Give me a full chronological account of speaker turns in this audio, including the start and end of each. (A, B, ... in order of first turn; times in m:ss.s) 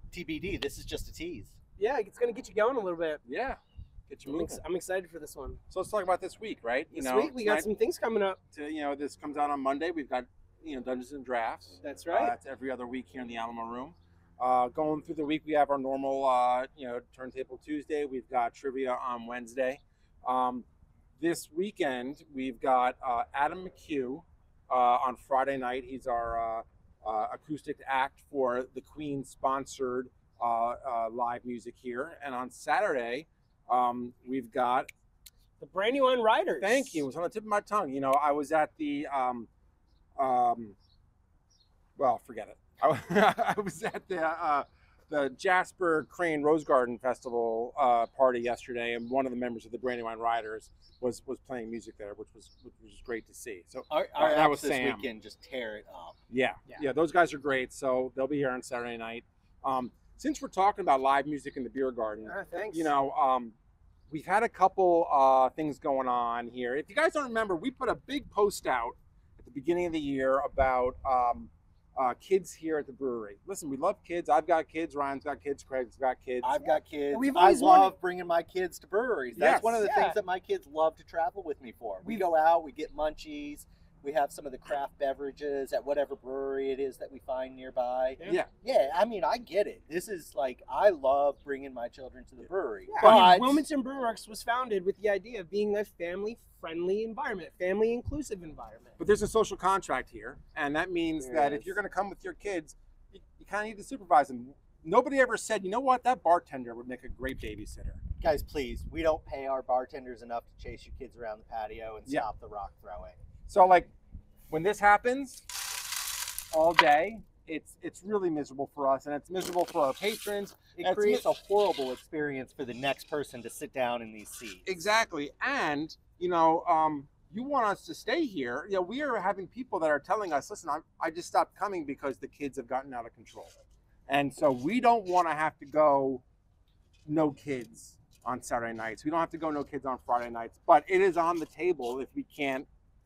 0:00.1-0:01.5 A
0:01.8-0:03.2 B
0:03.2-0:04.6 C
0:04.3-0:05.6 B
0:05.7-0:07.7 C
0:06.9-0:08.4 B
0:08.5-0:20.6 C
0:11.8-0:12.3 B
0:21.2-0:34.9 C
0:35.6-0:37.0 B
0:36.6-0:39.5 C
0:40.2-0:40.8 C
0:42.0-0:55.0 C
0:53.9-0:56.2 A
0:56.3-1:03.5 C
1:02.2-1:02.9 B
1:04.1-1:16.6 C
1:16.4-1:33.7 A
1:16.7-1:17.9 B
1:19.4-1:19.8 C
1:19.8-1:20.2 B
1:32.9-1:39.0 B
1:33.0-1:33.3 C
1:39.0-1:48.0 C
1:41.2-1:41.8 A
1:48.2-1:53.2 A
1:53.5-1:53.9 C
1:54.5-1:55.4 C
1:56.5-2:01.2 C
2:00.8-2:04.6 A
2:04.6-2:13.5 C
2:14.1-2:16.2 C
2:17.1-2:22.6 C